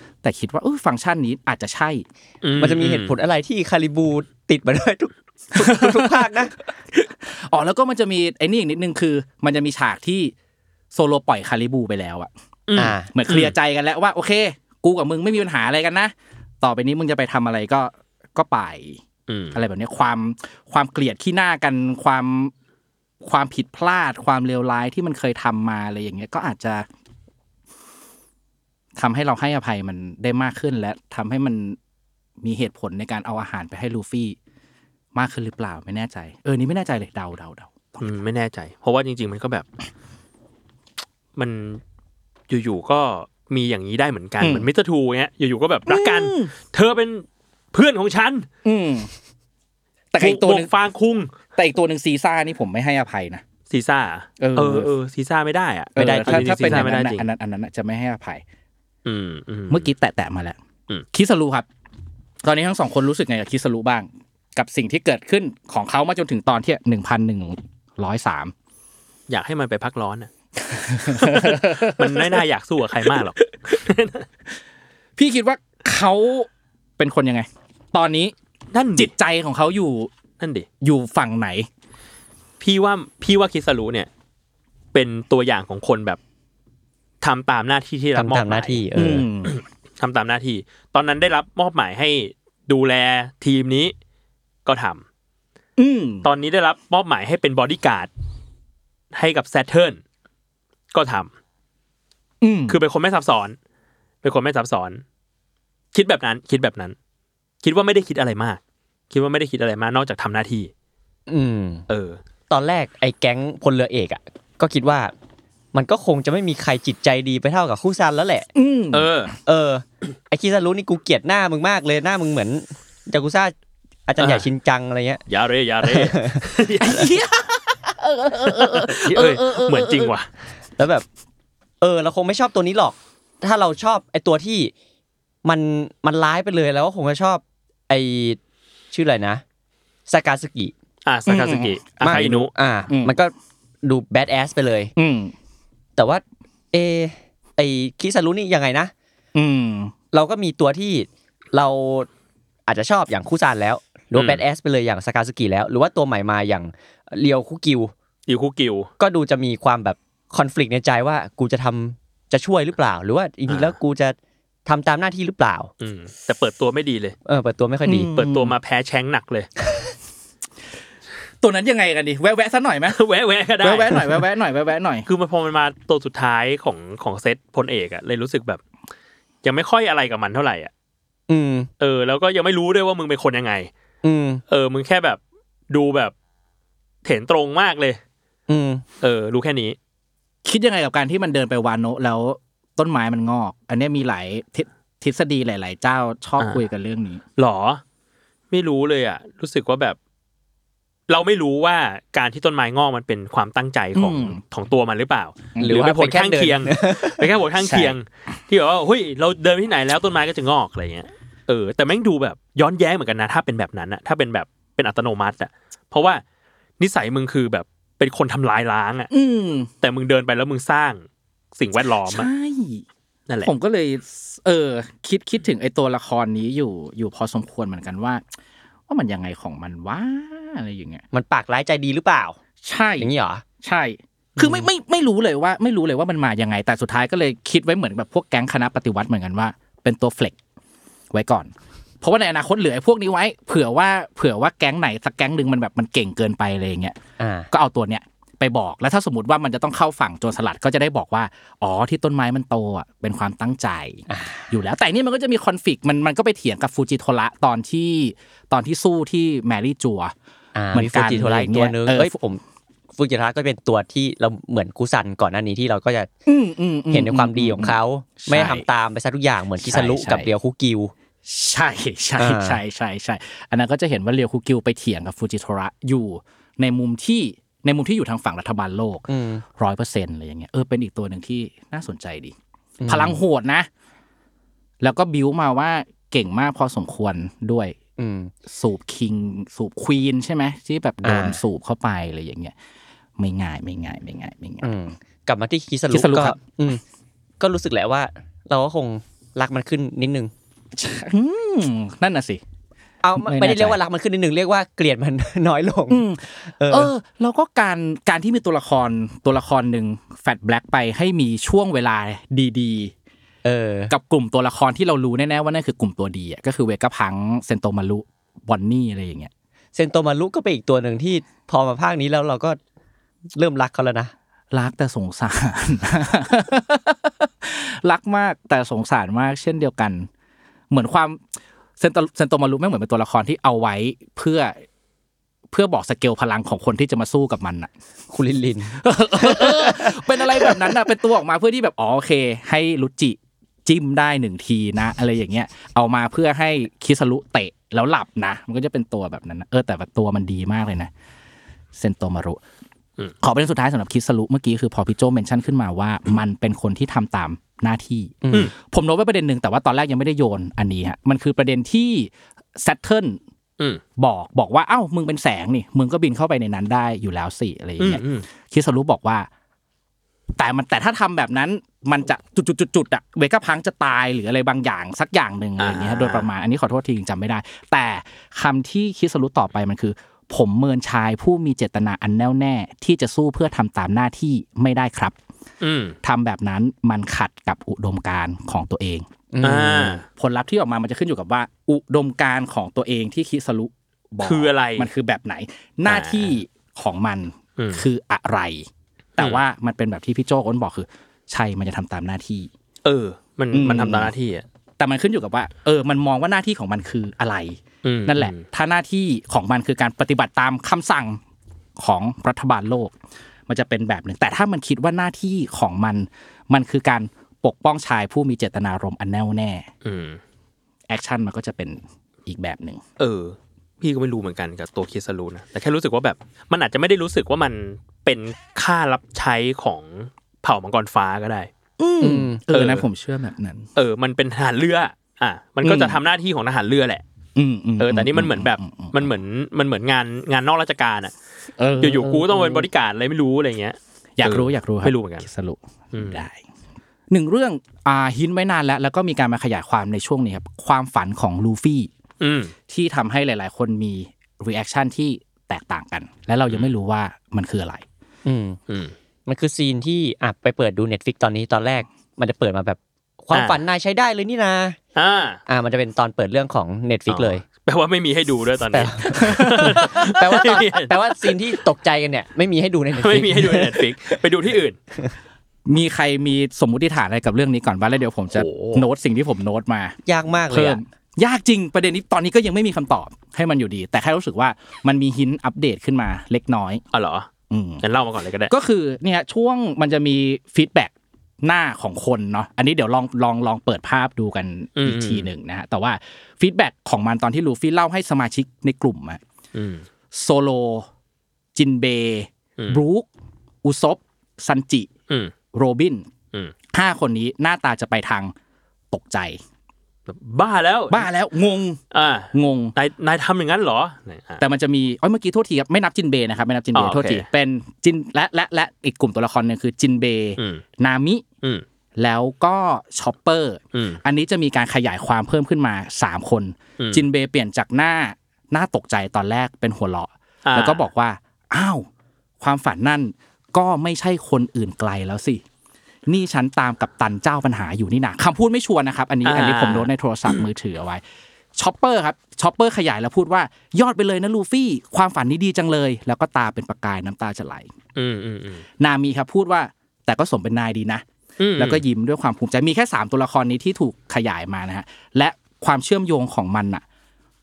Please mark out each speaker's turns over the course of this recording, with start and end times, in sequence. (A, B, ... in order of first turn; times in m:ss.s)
0:00.2-0:02.0 A
0:02.4-0:03.1 B
0:02.6-0:06.5 C
0:05.6-0:06.3 A
0:06.9-0:10.3 A
0:10.9-0:12.3 A
0:12.7-0:13.6 B
0:12.8-0:13.1 C
0:13.1-0:22.5 A
0:19.3-0:19.6 B
0:23.2-0:26.9 A
0:29.0-0:31.8 A
0:32.4-0:34.4 A
0:35.2-0:38.1 A
0:38.0-0:39.7 B
0:41.4-0:41.8 B
0:42.5-0:48.5 B
0:44.4-0:44.7 A
0:45.9-0:46.5 A
0:48.6-0:49.1 A
0:50.1-0:50.7 A
0:50.2-0:51.3 B
0:51.6-0:53.4 A
0:53.7-0:57.3 B
0:54.4-0:54.9 A
0:56.0-0:58.4 A
0:56.0-0:56.9 C
0:59.0-0:59.9 B
0:59.7-1:00.6 A
1:01.1-1:01.7 A
1:02.4-1:08.5 A
1:09.3-1:10.3 B
1:10.6-1:12.4 A
1:11.0-1:14.3 B
1:15.2-1:18.3 A
1:18.7-1:19.1 B
1:19.0-1:20.1 A
1:20.4-1:20.7 B
1:20.8-1:21.7 A
1:22.6-1:24.1 B
1:24.9-1:26.2 B
1:27.2-1:28.8 B
1:28.2-1:29.3 C
1:29.0-1:29.6 A
1:29.4-1:33.9 B
1:34.7-1:35.0 B
1:35.8-1:36.3 A
1:36.2-1:38.1 B
1:39.1-1:40.0 B
1:40.9-1:41.3 B
1:42.4-1:42.8 A
1:42.7-1:43.6 B
1:44.2-1:45.0 B
1:45.9-1:47.0 B
1:47.6-1:48.6 B
1:49.1-1:50.7 B
1:51.3-1:51.9 C
1:51.9-1:52.2 B
1:52.5-1:55.1 C
1:55.7-1:58.5 C
1:58.6-1:59.1 A
1:58.9-1:59.3 B
1:59.5-2:03.5 C
2:04.1-2:05.2 C
2:04.2-2:04.5 B
2:05.3-2:07.1 B
2:05.8-2:06.5 C
2:06.8-2:10.1 A
2:08.5-2:10.3 B
2:10.8-2:11.1 C
2:11.8-2:14.7 C
2:15.4-2:18.4 C
2:18.9-2:19.4 C
2:20.1-2:20.7 C
2:21.0-2:22.5 B
2:21.3-2:21.8 A
2:22.0-2:24.9 C
2:22.9-2:23.2 A
2:25.0-2:25.3 A
2:26.0-2:28.9 C
2:29.4-2:29.9 A
2:30.1-2:32.1 C
2:32.7-2:37.9 C
2:34.2-2:34.4 B
2:38.3-2:38.9 B
2:39.0-2:45.7 C
2:43.5-2:43.7 B
2:45.8-2:47.2 B
2:47.3-2:48.1 C
2:47.9-2:48.5 A
2:48.1-2:49.5 B
2:51.4-2:53.0 A
2:52.9-2:54.2 B
2:53.6-2:55.1 A
2:55.1-2:58.6 B
2:59.4-3:00.7 B
3:01.3-3:01.7 C
3:01.8-3:03.7 B
3:04.0-3:04.4 C
3:04.5-3:06.1 B
3:07.0-3:08.0 B
3:08.5-3:08.8 C
3:09.0-3:09.8 B
3:10.4-3:17.2 A
3:17.4-3:17.8 B
3:18.5-3:20.0 B
3:21.1-3:36.2 B
3:24.0-3:24.4 A
3:25.6-3:27.3 C
3:27.6-3:28.0 A
3:36.8-3:39.1 B
3:39.1-3:39.7 A
3:39.8-3:41.0 B
3:41.6-3:42.3 B
3:42.0-3:42.8 A
3:43.4-3:48.2 A
3:48.9-3:51.0 A
3:51.1-3:52.4 C
3:52.6-3:53.1 A
3:53.0-3:53.4 C
3:53.6-4:00.4 A
4:01.1-4:07.0 A
4:07.2-4:07.5 C
4:07.5-4:20.1 A
4:14.1-4:14.5 C
4:20.6-4:22.4 C
4:20.7-4:22.1 A
4:23.0-4:26.1 C
4:26.3-4:28.7 A
4:26.9-4:30.9 C
4:29.6-4:30.3 A
4:31.2-4:42.4 A
4:32.2-4:32.6 C
4:39.1-4:39.4 C
4:42.8-4:43.2 C
4:42.9-4:43.7 A
4:44.8-4:47.8 A
4:48.0-4:48.3 C
4:48.5-4:52.5 A
4:51.0-4:51.4 C
4:53.2-4:54.7 A
4:54.6-4:56.8 C
4:55.9-4:56.4 A
4:57.4-5:00.3 C
5:00.8-5:02.4 A
5:03.0-5:06.9 C
5:03.2-5:03.8 A
5:05.9-5:12.9 A
5:13.4-5:13.9 C
5:13.9-5:19.3 A
5:19.8-5:22.6 C
5:23.4-5:24.1 C
5:24.5-5:30.1 A
5:30.7-5:31.2 A
5:31.8-5:34.6 A
5:35.5-5:37.7 A
5:38.1-5:40.8 C
5:38.8-5:50.9 A
5:51.8-5:52.4 A
5:53.2-6:03.2 A
5:58.2-5:58.5 C
6:04.0-6:09.3 A
6:07.8-6:08.3 B
6:10.4-6:25.2 A
6:15.6-6:16.3 B
6:25.6-6:26.0 B
6:26.0-6:29.1 A
6:29.3-6:30.0 C
6:29.4-6:30.0 B
6:30.1-6:42.5 A
6:34.2-6:34.9 B
6:35.9-6:36.4 B
6:37.6-6:37.8 B
6:42.8-6:44.4 B
6:43.5-6:44.1 A
6:44.8-6:51.2 A
6:47.8-6:48.4 B
6:51.8-6:53.0 A
6:53.5-6:59.7 A
6:59.8-7:00.2 B
7:00.9-7:02.8 A
7:03.0-7:11.5 B
7:11.8-7:13.7 A
7:12.0-7:12.4 C
7:12.5-7:12.8 B
7:13.8-7:17.0 B
7:15.6-7:16.0 A
7:17.4-7:19.1 A
7:17.8-7:21.1 B
7:21.6-7:22.7 A
7:21.8-7:25.3 B
7:24.2-7:26.4 A
7:25.9-7:26.2 B
7:27.1-7:31.9 A
7:32.2-7:32.5 B
7:32.7-7:37.8 A
7:38.2-7:38.6 C
7:38.7-7:38.9 B
7:39.3-7:44.8 C
7:43.3-7:43.6 B
7:45.0-7:45.4 B
7:45.5-7:47.4 C
7:47.1-7:51.6 B
7:48.7-7:54.2 C
7:53.0-7:54.8 B
7:55.7-8:00.0 A
7:58.3-7:58.9 B
8:00.1-8:00.8 C
8:00.5-8:06.8 A
8:06.9-8:07.3 B
8:07.5-8:07.8 A
8:07.8-8:08.5 B
8:08.5-8:19.2 A
8:14.8-8:15.3 B
8:19.5-8:19.8 B
8:20.1-8:20.9 A
8:21.6-8:23.1 A
8:23.6-8:24.9 A
8:25.5-8:26.1 A
8:26.7-8:28.3 A
8:28.9-8:29.4 A
8:30.1-8:31.1 B
8:30.9-8:31.8 A
8:31.9-8:34.4 B
8:32.3-8:32.7 A
8:34.4-8:41.2 A
8:36.7-8:37.3 B
8:40.4-8:40.6 B
8:42.0-8:51.9 A
8:43.7-8:44.0 B
8:46.8-8:47.0 B
8:50.5-8:50.8 B
8:52.4-8:55.4 A
8:56.1-9:01.0 A
8:59.2-9:00.4 B
9:01.6-9:07.7 A
9:08.0-9:08.6 B
9:08.8-9:11.0 A
9:11.4-9:11.8 B
9:11.6-9:16.8 A